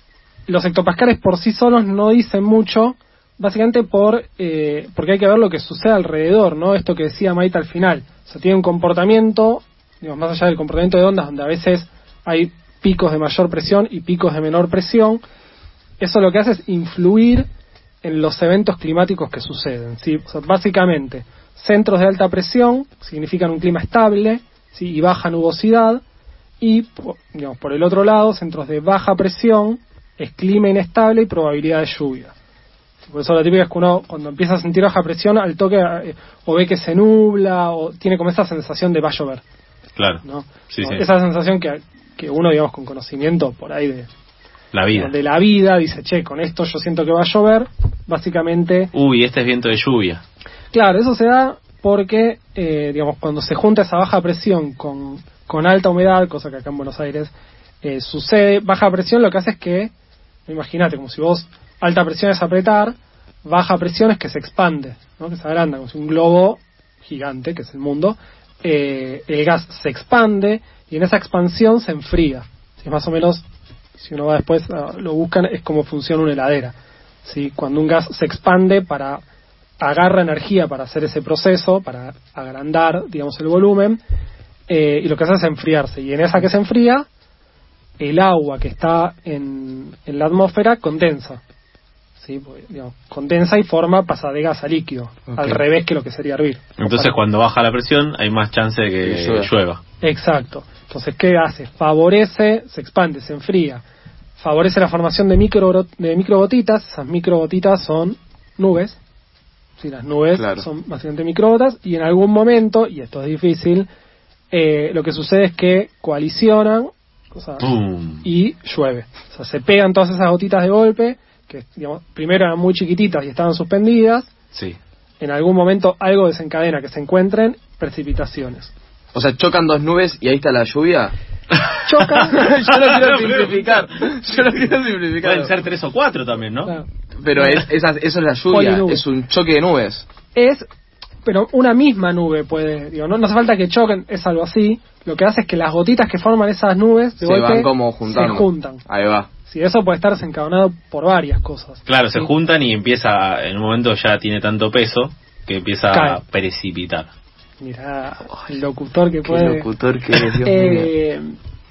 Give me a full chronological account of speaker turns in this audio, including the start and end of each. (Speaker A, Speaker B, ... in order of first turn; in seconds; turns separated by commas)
Speaker A: 0.5-15.2, Speaker A: 16.0-17.5, Speaker A: 18.0-26.0, Speaker A: 26.6-32.3, Speaker A: 33.1-39.4, Speaker B: 40.0-41.0, Speaker A: 40.2-44.1, Speaker B: 44.7-45.1, Speaker A: 44.9-48.9, Speaker B: 48.9-50.2, Speaker A: 50.7-57.3, Speaker A: 57.8-59.9, Speaker A: 60.5-73.4, Speaker A: 74.0-79.2, Speaker A: 79.8-84.0, Speaker A: 84.7-87.1, Speaker A: 88.0-91.4, Speaker A: 92.2-97.1, Speaker B: 96.8-99.8, Speaker C: 99.0-99.5, Speaker A: 100.0-103.8, Speaker A: 104.4-109.0, Speaker A: 109.8-113.9, Speaker C: 110.3-110.7, Speaker A: 114.5-117.7, Speaker B: 117.6-118.2, Speaker A: 118.2-124.3, Speaker B: 124.5-124.8, Speaker A: 125.2-128.7, Speaker C: 129.1-131.1, Speaker A: 131.9-132.4, Speaker C: 132.2-135.5, Speaker B: 132.7-133.5, Speaker B: 135.2-136.7, Speaker C: 137.2-140.1, Speaker A: 137.4-137.7, Speaker A: 138.5-139.0, Speaker A: 140.3-140.7, Speaker A: 141.2-148.8, Speaker C: 147.2-149.3, Speaker A: 149.5-152.3, Speaker B: 151.9-157.1, Speaker A: 155.9-156.2, Speaker A: 157.6-161.4, Speaker C: 159.2-160.9